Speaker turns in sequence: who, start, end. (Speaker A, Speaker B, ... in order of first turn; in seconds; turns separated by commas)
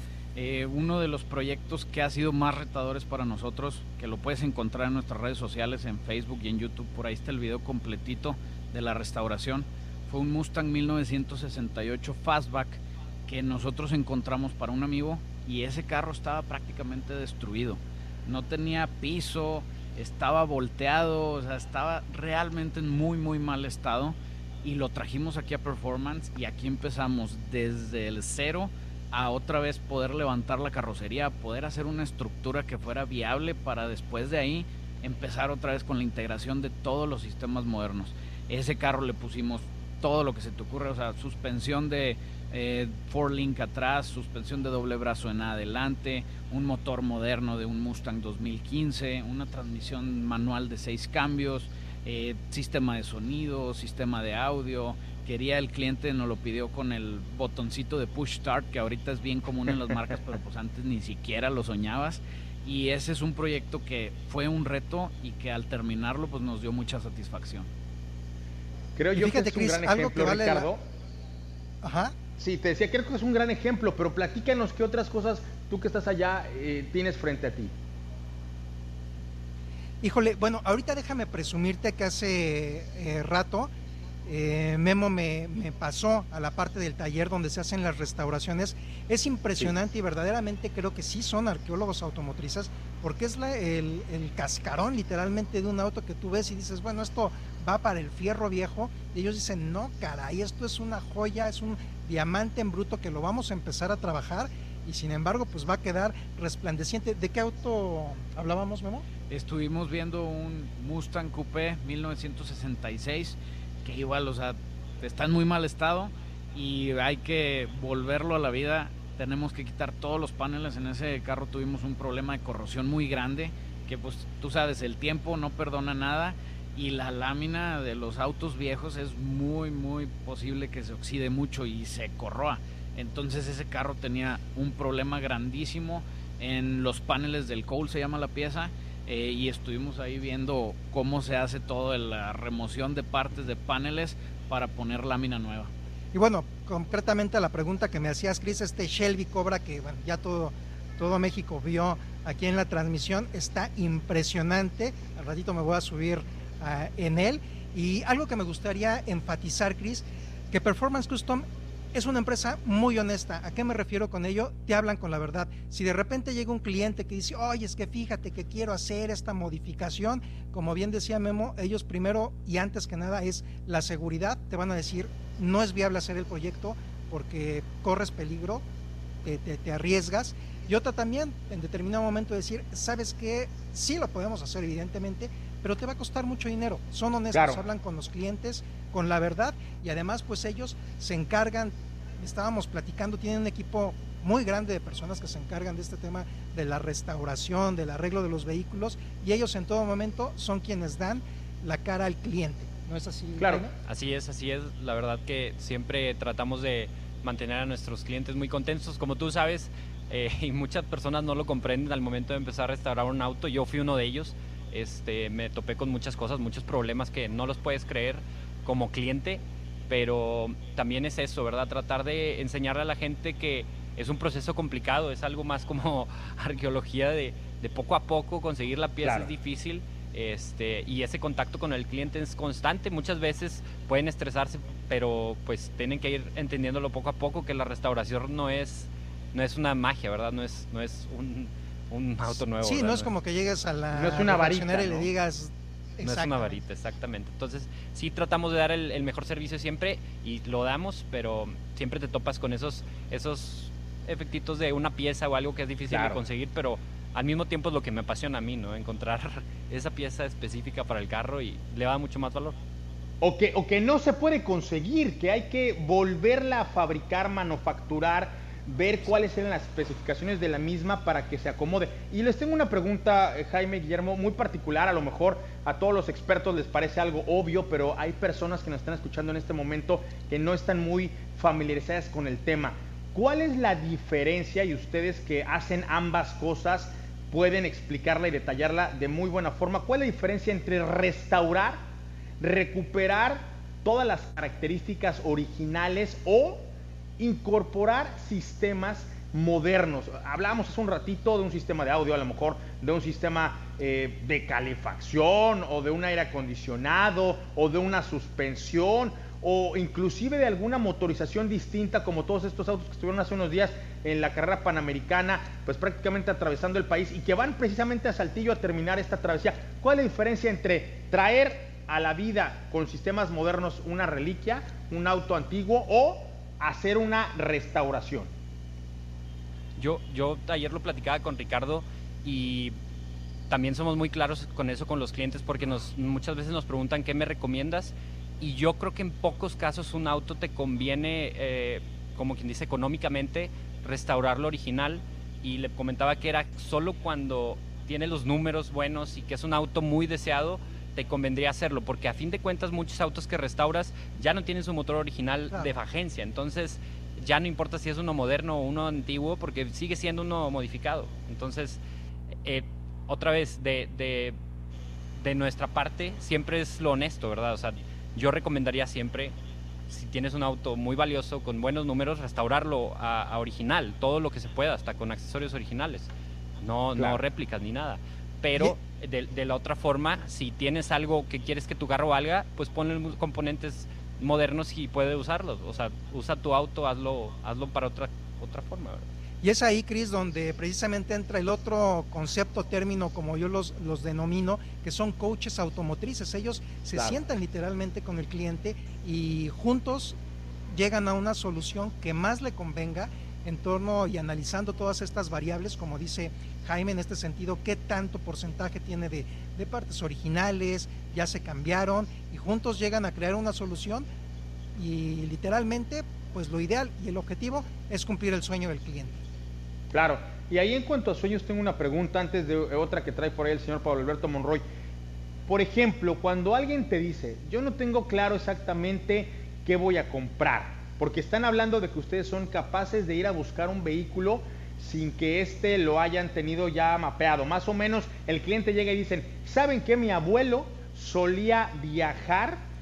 Speaker A: 0.3-67.7, Speaker B: 69.0-70.8, Speaker C: 69.1-70.7, Speaker C: 71.8-72.1, Speaker B: 72.4-77.7, Speaker C: 80.0-83.7, Speaker C: 84.2-109.0, Speaker A: 109.3-145.7, Speaker C: 146.1-178.6, Speaker C: 179.2-203.7, Speaker B: 187.3-187.6, Speaker B: 203.4-203.6, Speaker D: 203.8-243.1, Speaker B: 229.0-229.3, Speaker C: 242.6-246.6, Speaker B: 243.9-245.1, Speaker D: 246.0-262.5, Speaker B: 255.9-256.2, Speaker B: 263.2-291.8, Speaker B: 292.4-296.7, Speaker B: 297.2-328.3, Speaker D: 329.8-332.7, Speaker D: 333.5-361.8, Speaker D: 362.4-364.4, Speaker D: 365.2-369.3, Speaker D: 369.9-389.1, Speaker C: 389.4-400.2, Speaker C: 400.7-414.1, Speaker C: 414.8-419.2, Speaker B: 419.9-424.6, Speaker B: 425.5-442.6